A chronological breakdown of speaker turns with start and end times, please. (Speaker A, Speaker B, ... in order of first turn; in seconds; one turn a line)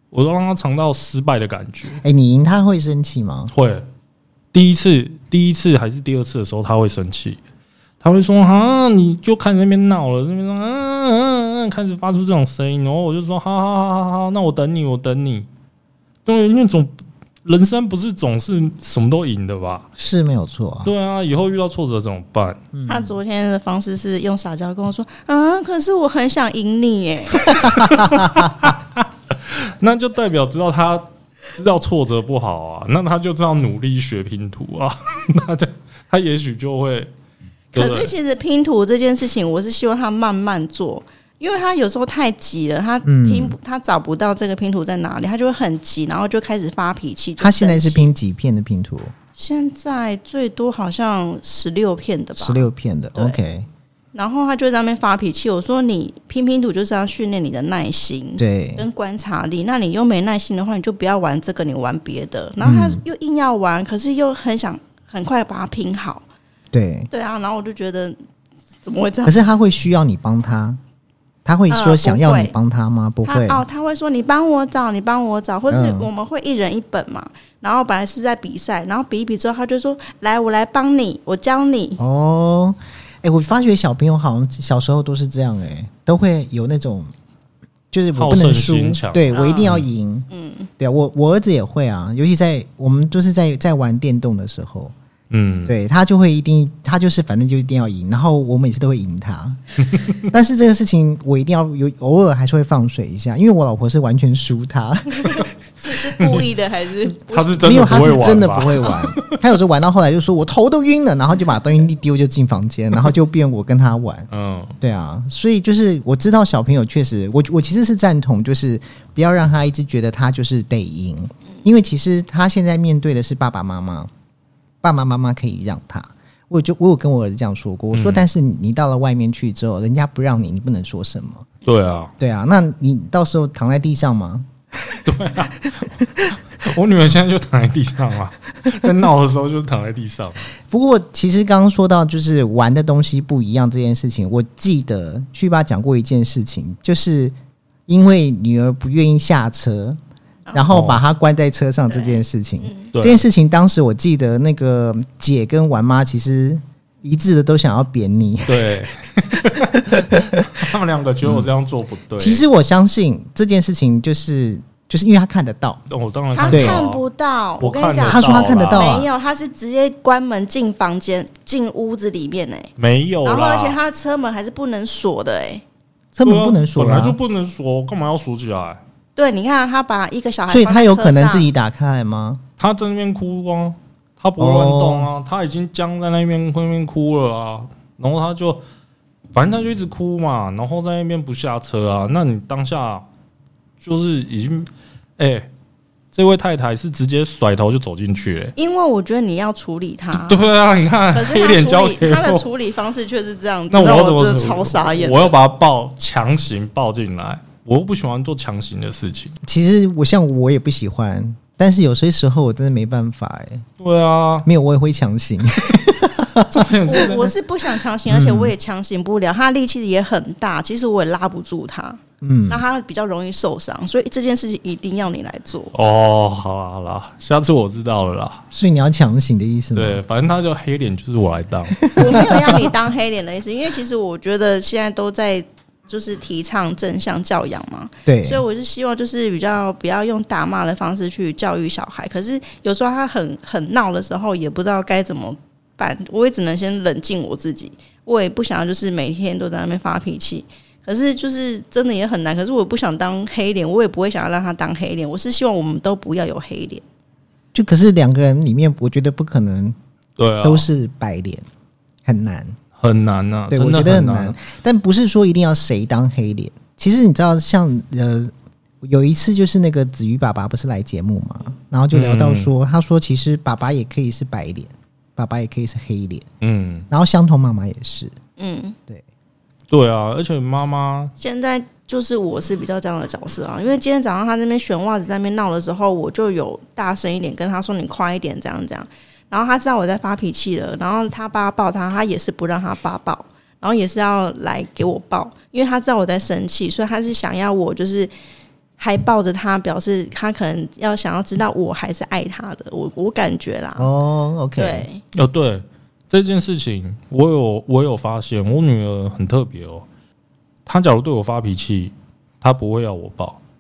Speaker A: 0.1-2.0
Speaker B: 2.0-3.5
Speaker A: 3.5-3.9
Speaker A: 4.5-7.4
Speaker A: 8.0-15.5
Speaker A: 16.3-19.9
Speaker B: 20.0-20.9
Speaker A: 20.8-22.6
Speaker B: 22.7-23.1
Speaker C: 22.9-27.9
Speaker B: 27.7-28.5
Speaker A: 27.7-37.1
Speaker A: 37.7-38.1
Speaker C: 37.8-48.1
Speaker B: 43.0-43.6
Speaker B: 47.4-49.1
Speaker C: 49.4-53.4
Speaker B: 52.4-53.7
Speaker C: 54.1-66.2
Speaker B: 58.4-58.9
Speaker B: 62.6-63.0
Speaker B: 66.7-67.1
Speaker C: 67.1-68.2
Speaker C: 68.8-69.4
Speaker B: 69.2-70.8
Speaker B: 71.5-73.7
Speaker C: 71.7-72.5
Speaker C: 73.2-82.0
Speaker B: 75.7-76.1
Speaker B: 82.0-87.1
Speaker B: 87.9-90.3
Speaker A: 88.2-89.9
Speaker C: 89.3-89.7
Speaker C: 90.3-90.7
Speaker B: 90.8-94.9
Speaker A: 95.3-95.7
Speaker B: 95.7-99.6
Speaker B: 100.2-105.5
Speaker C: 105.3-108.4
Speaker A: 106.2-106.5
Speaker A: 107.2-109.4
Speaker B: 107.6-114.3
Speaker A: 114.3-114.8
Speaker B: 114.8-124.1
Speaker B: 124.8-131.5
Speaker A: 127.9-128.2
Speaker A: 131.7-132.1
Speaker B: 132.2-135.1
Speaker A: 135.1-136.0
Speaker A: 136.6-140.5
Speaker B: 140.7-147.3
Speaker B: 147.9-150.0
Speaker B: 150.5-158.7
Speaker A: 150.7-151.0
Speaker C: 151.9-152.9
Speaker A: 152.9-153.2
Speaker A: 158.5-162.4
Speaker B: 159.6-160.7
Speaker B: 162.2-165.8
Speaker A: 165.9-167.0
Speaker C: 166.3-172.7
Speaker B: 166.5-166.9
Speaker A: 167.6-169.0
Speaker B: 168.1-169.1
Speaker A: 172.8-173.8
Speaker C: 173.2-175.6
Speaker B: 176.2-177.2
Speaker A: 176.2-178.8
Speaker C: 179.2-181.5
Speaker B: 180.5-182.4
Speaker A: 182.6-188.6
Speaker B: 184.4-185.1
Speaker A: 189.3-193.1
Speaker A: 193.8-195.5
Speaker A: 196.1-198.5
Speaker C: 198.6-200.5
Speaker A: 200.1-202.4
Speaker C: 201.1-205.3
Speaker A: 203.7-209.4
Speaker B: 209.4-213.7
Speaker A: 213.8-214.5
Speaker B: 214.4-217.0
Speaker A: 216.5-217.3
Speaker C: 216.9-225.7
Speaker B: 218.1-218.5
Speaker B: 222.2-222.6
Speaker A: 225.7-228.4
Speaker B: 228.5-230.0
Speaker A: 229.8-232.4
Speaker B: 231.9-232.6
Speaker C: 231.9-256.8
Speaker B: 238.1-238.4
Speaker B: 257.5-259.8
Speaker A: 260.2-260.7
Speaker B: 260.4-261.4
Speaker B: 262.1-262.6
Speaker A: 262.8-264.4
Speaker B: 263.5-276.2
Speaker A: 271.9-272.5
Speaker A: 276.4-276.9
Speaker B: 276.9-278.1
Speaker C: 278.4-278.8
Speaker A: 279.7-281.1
Speaker C: 281.2-298.1
Speaker C: 298.8-303.9
Speaker B: 303.8-304.9
Speaker C: 304.6-305.0
Speaker A: 305.1-309.9
Speaker A: 310.7-313.4